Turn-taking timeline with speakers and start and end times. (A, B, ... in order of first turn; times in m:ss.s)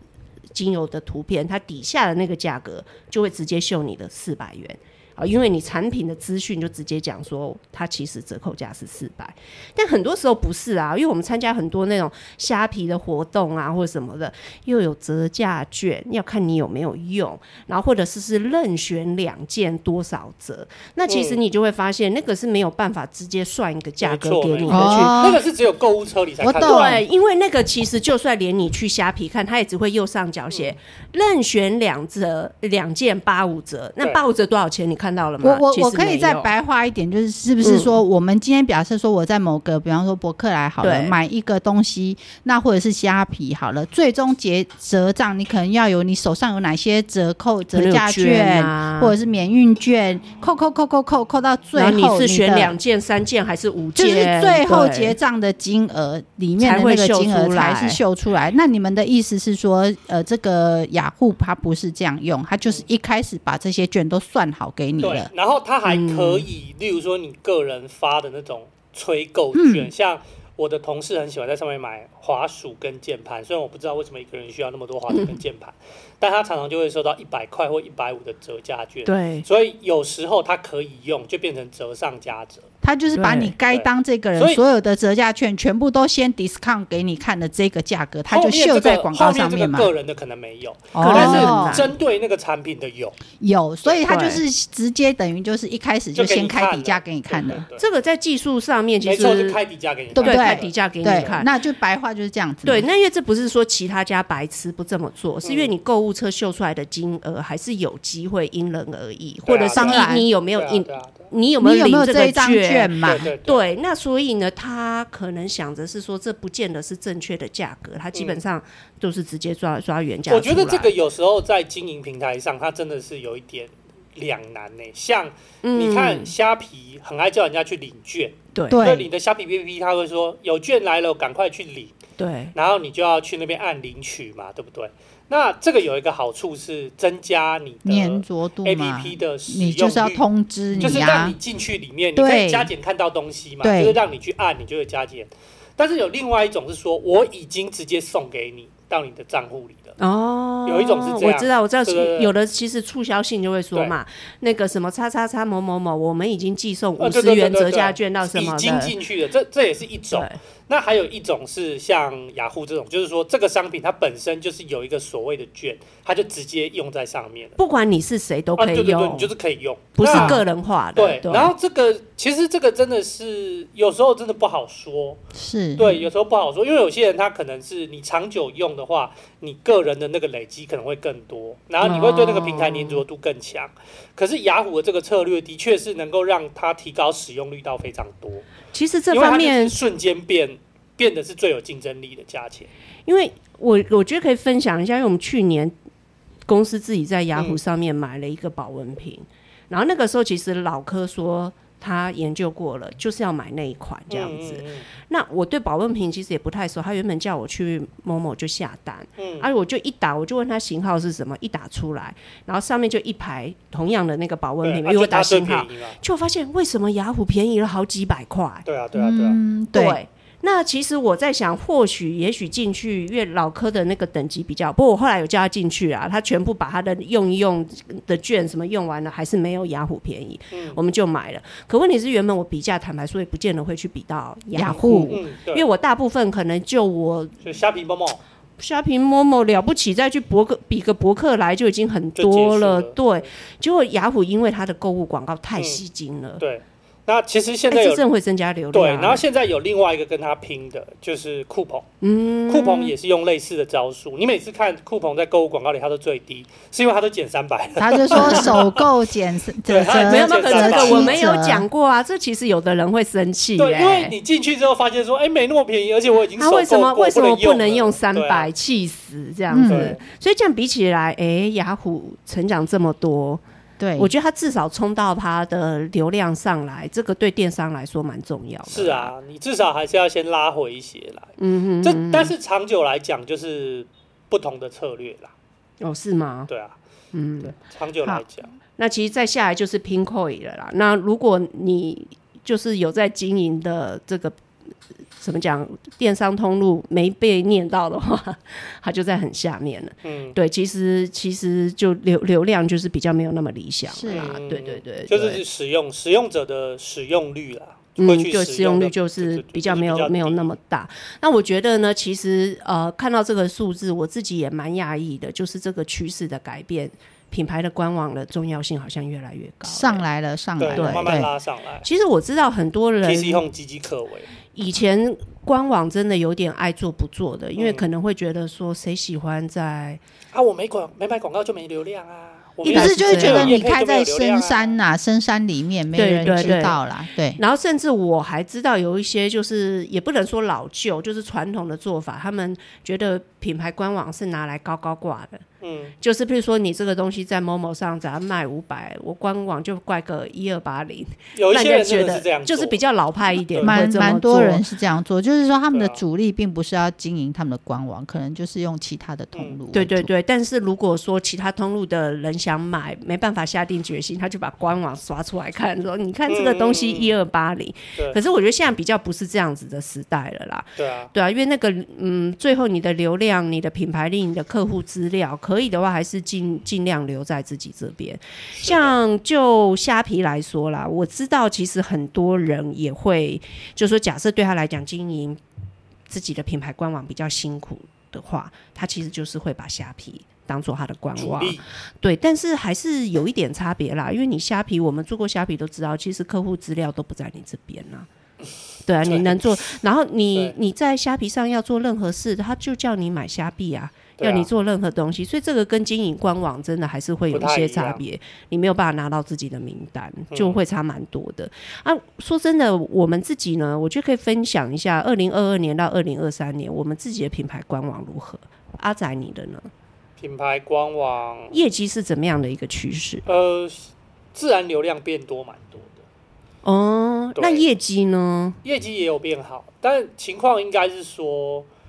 0:00.5-0:25.3 A
0:21.1-0:21.4 B
0:24.0-0:27.0 B
0:24.7-0:25.4 C
0:26.4-0:27.0 C
0:26.6-0:36.5 A
0:35.4-0:52.8 C
0:37.6-0:38.0 A
0:40.8-0:41.2 A
0:47.7-0:49.1 A
0:51.8-0:55.2 A
0:54.0-1:05.3 C
0:56.6-0:58.0 A
1:05.0-1:24.6 B
1:05.8-1:06.5 A
1:09.5-1:09.9 C
1:15.1-1:15.4 A
1:19.0-1:19.5 A
1:22.8-1:29.9 C
1:28.3-1:33.2 B
1:31.0-1:31.9 C
1:31.0-1:31.9 A
1:33.4-1:37.6 C
1:34.1-1:34.4 A
1:36.1-1:37.8 B
1:37.8-1:39.6 A
1:39.0-1:41.4 B
1:40.1-1:41.5 A
1:40.2-1:42.9 C
1:42.6-2:00.9 A
1:45.4-1:45.7 B
1:49.4-1:51.3 B
1:49.7-1:50.3 C
1:51.6-1:53.3 C
1:53.0-1:53.6 B
1:58.1-1:58.4 B
2:00.3-2:11.9 B
2:05.6-2:06.3 A
2:08.5-2:08.8 A
2:08.7-2:09.1 C
2:12.2-2:12.5 A
2:12.5-2:20.2 B
2:17.8-2:21.4 C
2:20.8-2:30.0 B
2:22.2-2:22.7 C
2:23.6-2:24.0 C
2:30.0-2:38.9 A
2:30.6-2:32.3 B
2:37.0-2:47.6 B
2:47.6-2:49.3 A
2:48.6-2:50.4 B
2:50.0-2:51.5 A
2:50.1-2:50.4 C
2:51.0-2:55.2 B
2:55.3-2:55.9 C
2:55.8-3:08.5 B
3:01.8-3:03.0 A
3:08.7-3:09.8 A
3:09.1-3:12.7 B
3:13.1-3:15.7 A
3:16.5-3:38.7 A
3:24.1-3:24.9 B
3:29.2-3:29.5 B
3:34.6-3:36.0 B
3:38.6-3:39.4 B
3:38.9-3:40.0 C
3:39.7-3:57.4 A
3:50.5-3:50.8 B
3:54.5-3:55.2 C
3:54.7-3:55.7 B
3:57.4-3:58.2 B
3:58.6-4:06.4 A
4:02.2-4:03.3 B
4:05.6-4:05.8 B
4:06.4-4:08.0 B
4:07.7-4:09.2 A
4:08.7-4:11.9 B
4:12.0-4:12.9 A
4:12.5-4:18.8 B
4:17.8-4:21.7 C
4:18.1-4:18.5 A
4:19.7-4:21.4 B
4:20.0-4:24.2 A
4:23.6-4:28.5 B
4:26.4-4:33.4 A
4:29.5-4:29.9 C
4:29.7-4:30.0 B
4:33.8-4:34.1 C
4:34.0-4:39.1 A
4:38.7-4:45.3 B
4:41.4-4:42.3 A
4:45.8-4:46.5 A
4:46.5-4:46.8 B
4:47.1-4:47.6 A
4:47.4-4:48.5 B
4:48.8-4:54.4 A
4:55.2-5:05.4 A
5:00.0-5:00.4 B
5:03.9-5:04.4 C
5:04.1-5:10.5 B
5:08.0-5:20.0 A
5:19.7-5:21.3 C
5:20.6-5:21.9 B
5:20.7-5:21.3 A
5:21.8-5:23.4 A
5:23.0-5:24.3 B
5:24.5-5:30.0 A
5:27.6-5:27.9 B
5:30.3-5:34.8 B
5:32.6-5:33.6 A
5:32.7-5:37.4 C
5:35.9-5:36.8 A
5:37.4-5:45.4 A
5:45.6-5:45.9 B
5:46.0-5:54.6 A
5:51.3-5:52.8 B
5:53.4-5:53.8 B
5:53.6-6:00.1 C
5:55.7-5:56.0 B
5:59.7-6:25.4 A
6:06.3-6:07.2 B
6:10.8-6:11.1 B
6:18.5-6:18.9 B
6:26.1-6:38.1 A
6:31.2-6:31.6 B
6:38.8-6:59.7 A
6:39.0-6:39.7 B
6:44.2-6:44.5 B
6:47.3-6:48.0 B
6:50.3-6:50.6 B
7:00.2-7:01.6 B
7:01.5-7:03.2 A
7:03.2-7:06.0 B
7:06.6-7:08.6 A
7:07.4-7:07.6 B
7:08.6-7:11.7 B